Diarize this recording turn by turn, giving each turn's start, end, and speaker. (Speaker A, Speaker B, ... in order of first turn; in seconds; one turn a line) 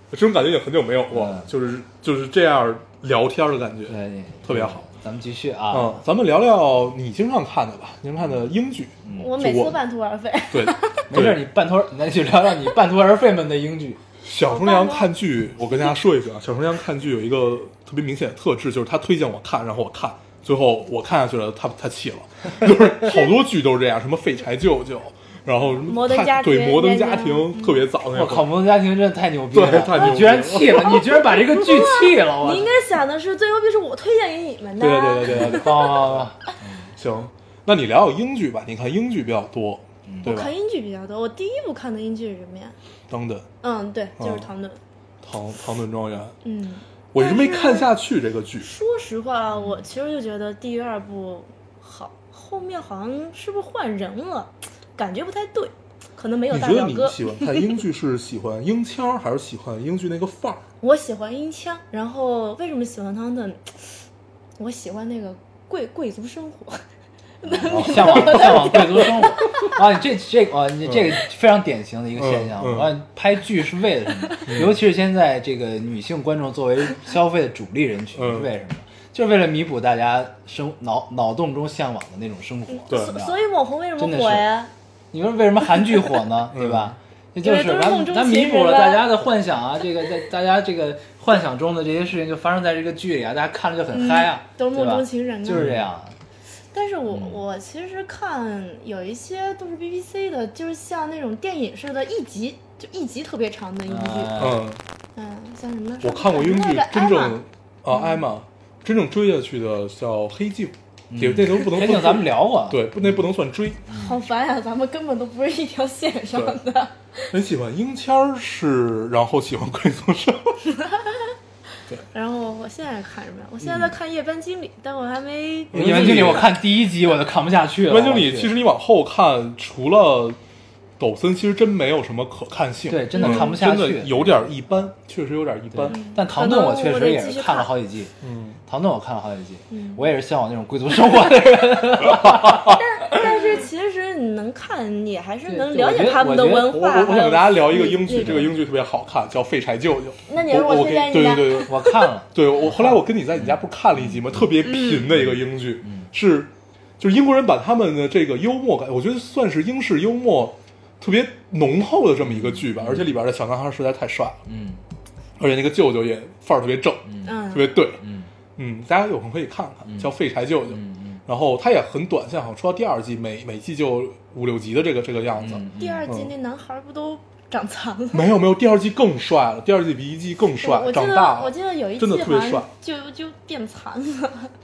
Speaker A: 0.1-4.8
Speaker B: 1.1-1.5
Speaker B: 3.9-6.0
Speaker A: 5.7-9.8
Speaker B: 9.0-9.3
Speaker C: 9.2-11.0
Speaker A: 10.5-11.4
Speaker B: 11.1-14.0
Speaker A: 14.2-28.5
Speaker C: 14.4-15.1
Speaker C: 25.8-27.8
Speaker B: 28.1-32.7
Speaker A: 29.5-31.1
Speaker C: 30.8-36.0
Speaker A: 34.8-36.3
Speaker B: 35.3-36.9
Speaker A: 37.0-40.5
Speaker B: 40.0-40.4
Speaker C: 40.2-42.7
Speaker A: 43.1-43.5
Speaker C: 43.6-44.8
Speaker A: 44.2-44.5
Speaker A: 45.2-46.4
Speaker C: 46.4-47.9
Speaker A: 47.1-48.7
Speaker C: 48.6-57.7
Speaker B: 49.5-49.8
Speaker A: 56.5-60.6
Speaker C: 60.8-63.8
Speaker C: 64.6-66.8
Speaker C: 67.4-69.7
Speaker B: 67.5-83.3
Speaker A: 68.0-68.5
Speaker A: 72.2-72.9
Speaker A: 74.5-74.8
Speaker A: 78.2-78.5
Speaker C: 82.7-84.7
Speaker A: 82.9-83.2
Speaker B: 84.0-84.5
Speaker B: 85.1-96.1
Speaker A: 86.5-86.9
Speaker C: 87.4-89.1
Speaker C: 93.9-95.7
Speaker A: 95.5-95.8
Speaker C: 96.7-104.5
Speaker B: 97.1-97.4
Speaker B: 103.8-104.6
Speaker A: 104.4-104.8
Speaker C: 105.2-107.4
Speaker A: 106.0-113.8
Speaker C: 107.9-108.2
Speaker B: 111.1-113.2
Speaker B: 113.9-114.1
Speaker C: 113.9-117.3
Speaker A: 117.3-120.6
Speaker C: 120.8-121.3
Speaker C: 122.1-126.4
Speaker B: 123.6-123.9
Speaker A: 125.7-126.5
Speaker B: 125.7-128.5
Speaker A: 127.9-130.4
Speaker A: 131.0-136.0
Speaker B: 132.9-134.6
Speaker C: 133.1-133.6
Speaker B: 135.7-138.1
Speaker C: 135.8-137.7
Speaker A: 138.2-138.6
Speaker B: 138.7-143.3
Speaker C: 139.7-140.0
Speaker A: 142.1-142.8
Speaker C: 142.7-148.5
Speaker B: 145.4-146.8
Speaker A: 146.7-151.7
Speaker B: 148.2-148.5
Speaker C: 150.3-152.0
Speaker B: 151.7-154.4
Speaker A: 152.3-164.4
Speaker C: 154.6-155.1
Speaker B: 155.2-156.1
Speaker B: 162.2-163.1
Speaker B: 164.4-164.8
Speaker A: 165.4-168.0
Speaker B: 167.1-167.3
Speaker C: 167.2-167.8
Speaker B: 168.0-168.3
Speaker A: 168.6-176.3
Speaker B: 169.8-170.1
Speaker B: 170.7-171.2
Speaker B: 175.4-176.1
Speaker C: 175.8-178.3
Speaker A: 178.1-182.7
Speaker C: 180.6-184.5